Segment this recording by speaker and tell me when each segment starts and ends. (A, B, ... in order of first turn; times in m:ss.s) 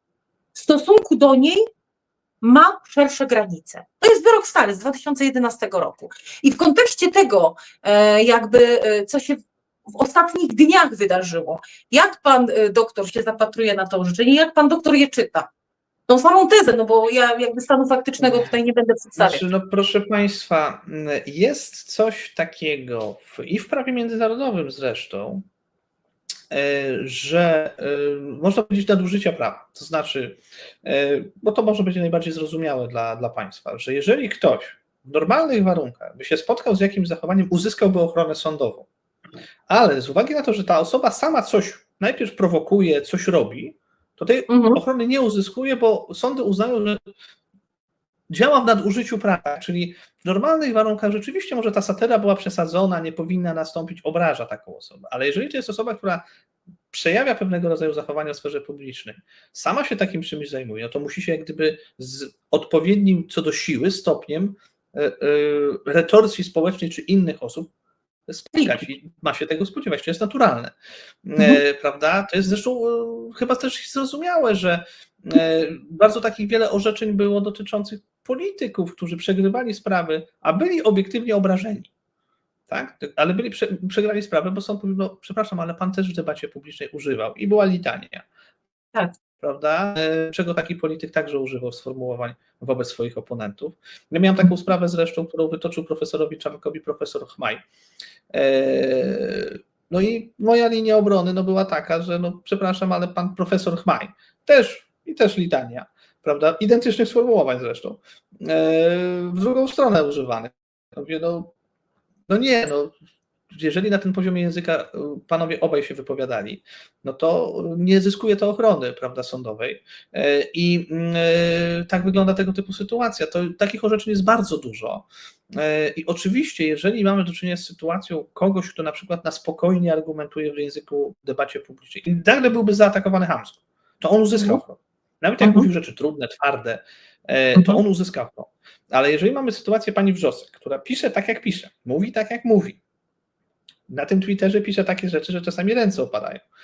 0:00.5-0:01.6 A
0:02.4-0:15.5 A
0:16.1-0:19.4 A
0:18.2-0:18.5 B
0:19.2-0:25.4 B
0:26.5-0:38.9 B
0:39.7-0:47.0 B
0:44.5-0:44.8 A
0:48.3-0:56.2 B
0:56.9-1:07.7 B
1:08.3-1:10.7 B
1:08.5-1:08.8 A
1:11.2-1:21.9 B
1:22.7-1:28.2 B
1:29.4-1:37.6 B
1:38.3-1:51.5 B
1:52.3-1:52.9 B
1:53.5-2:22.8 B
2:14.3-2:14.6 A
2:15.4-2:15.7 A
2:17.5-2:17.8 A
2:23.9-2:26.4 B